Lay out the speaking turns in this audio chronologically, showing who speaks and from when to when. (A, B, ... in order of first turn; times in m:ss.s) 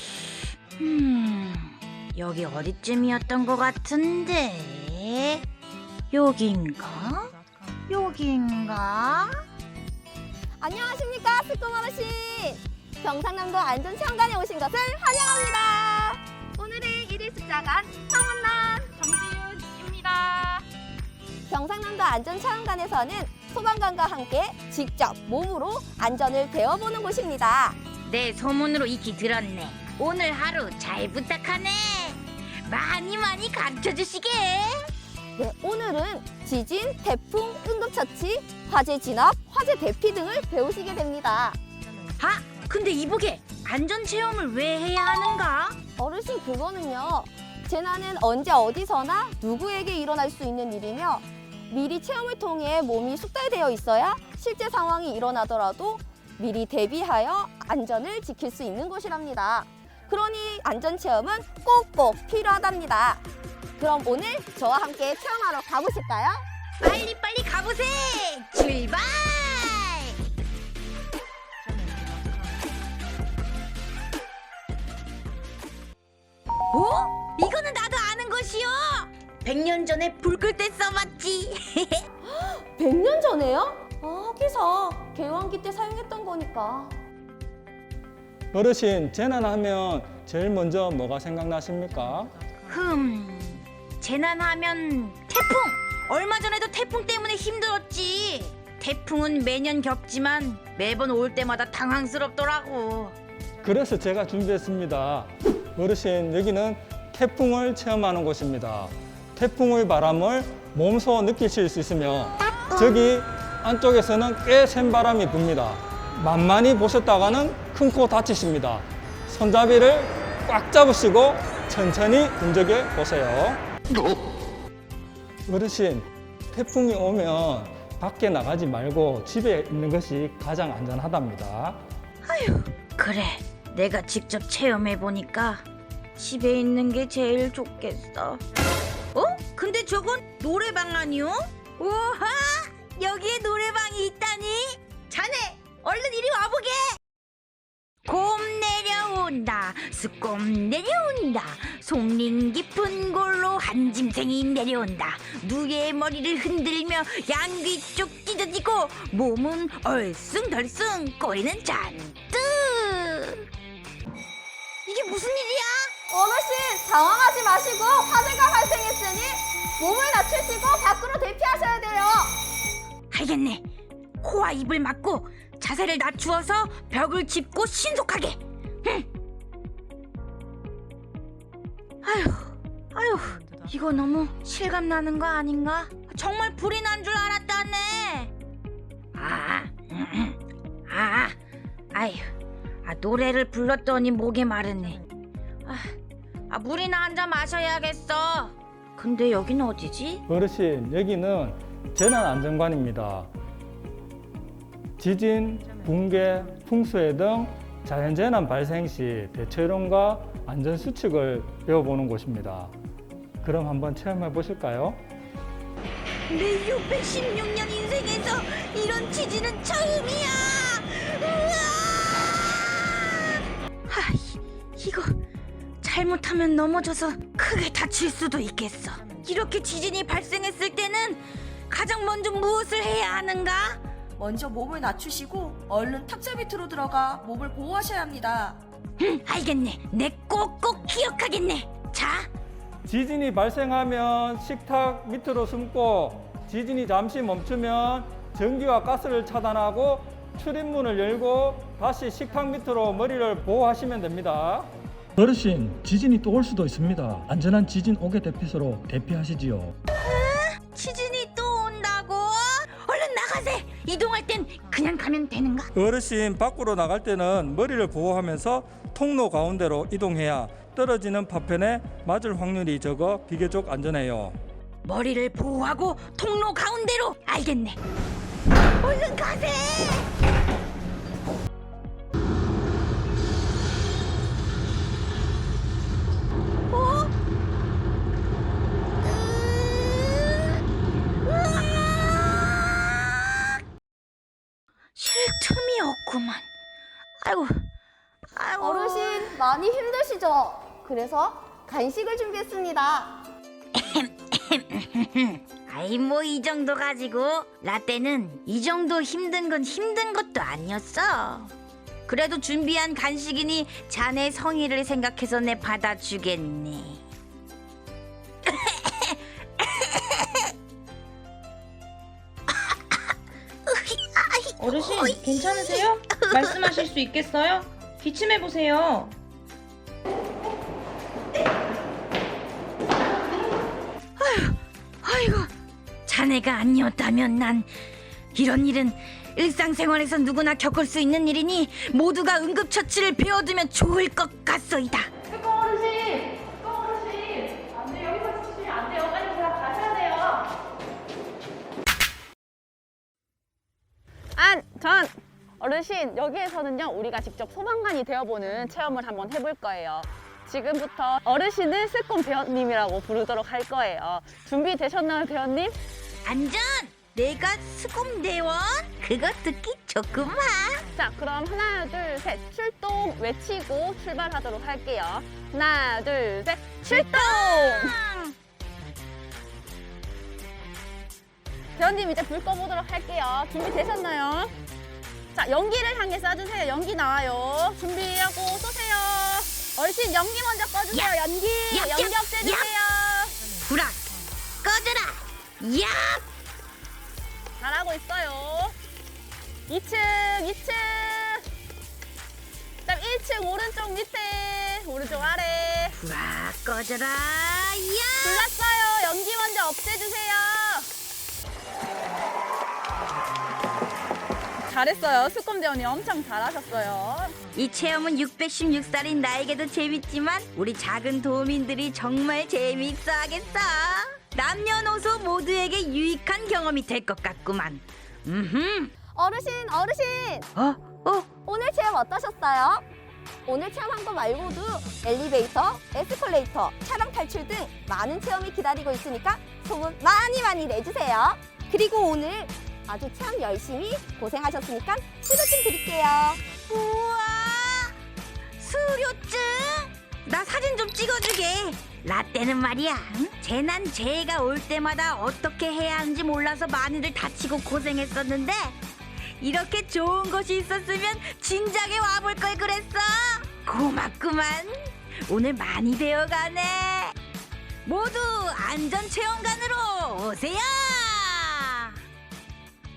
0:00.8-0:05.4 A
0:06.1-0:07.3 A
0:07.9-0:09.4 A
0:10.6-0:18.9 B
0:18.9-0:20.6 C
0:21.5-0:27.8 B
0:28.0-0:34.9 A
0:35.4-0:41.6 B
0:42.2-0:45.8 A
0:46.0-1:03.2 B
1:03.8-1:06.4 B
1:06.8-1:10.1 A
1:16.7-1:22.0 A
1:22.2-1:26.9 B
1:28.5-1:32.3 D
1:32.6-1:43.1 A
1:43.6-2:03.6 D
2:05.5-2:11.8 D
2:12.2-2:15.6 A
2:16.2-2:18.4 A
2:19.1-2:27.0 A
2:28.0-2:43.5 A
2:44.8-2:45.9 A
2:46.1-2:52.3 B
2:53.1-2:53.6 A
2:54.2-2:59.0 A
3:02.0-3:08.3 A
3:09.1-3:11.3 A
3:11.9-3:12.3 A
3:12.8-3:15.0 A
3:15.6-3:15.9 A
3:16.5-3:20.2 A
3:20.3-3:23.3 D
3:25.0-3:32.7 D
3:33.4-3:35.0 D
3:36.3-3:45.2 A
3:45.8-3:53.8 A
3:54.2-3:58.6 E
3:59.0-4:02.3 A
4:02.8-4:19.7 D
4:19.9-4:25.7 A
4:25.7-4:34.4 D
4:34.8-4:37.8 A
4:38.8-4:40.1 A
4:46.7-4:47.1 A
4:49.0-4:50.5 A
4:51.2-4:53.5 A
4:55.0-4:56.5 A
4:57.2-4:57.7 A
4:58.3-4:59.4 A
4:58.6-5:03.2 B
5:03.7-5:11.5 A
5:12.1-5:17.0 A
5:18.4-5:20.3 A
5:23.7-5:26.8 A
5:24.6-5:29.2 F
5:34.2-5:35.5 A
5:36.0-5:37.7 A
5:38.3-5:45.1 A
5:45.3-5:50.5 C
5:54.4-6:05.7 C
6:06.2-6:10.9 A
6:10.9-6:17.9 C
6:16.8-6:18.3 A
6:21.8-6:24.5 C
6:25.3-6:33.4 C
6:31.7-6:32.7 A
6:33.7-6:34.0 A
6:34.6-6:36.2 A
6:37.6-6:38.7 C
6:39.7-6:41.4 C
6:42.8-6:45.9 C
6:46.0-6:48.5 A
6:48.2-6:50.9 C
6:54.6-6:57.4 C
6:57.5-7:08.9 A
7:09.1-7:10.5 B
7:10.5-7:11.3 A
7:11.4-7:12.8 B
7:13.5-7:26.4 B
7:26.7-7:27.9 A
7:28.6-7:38.8 A
7:39.4-7:47.2 A
7:47.8-7:52.0 A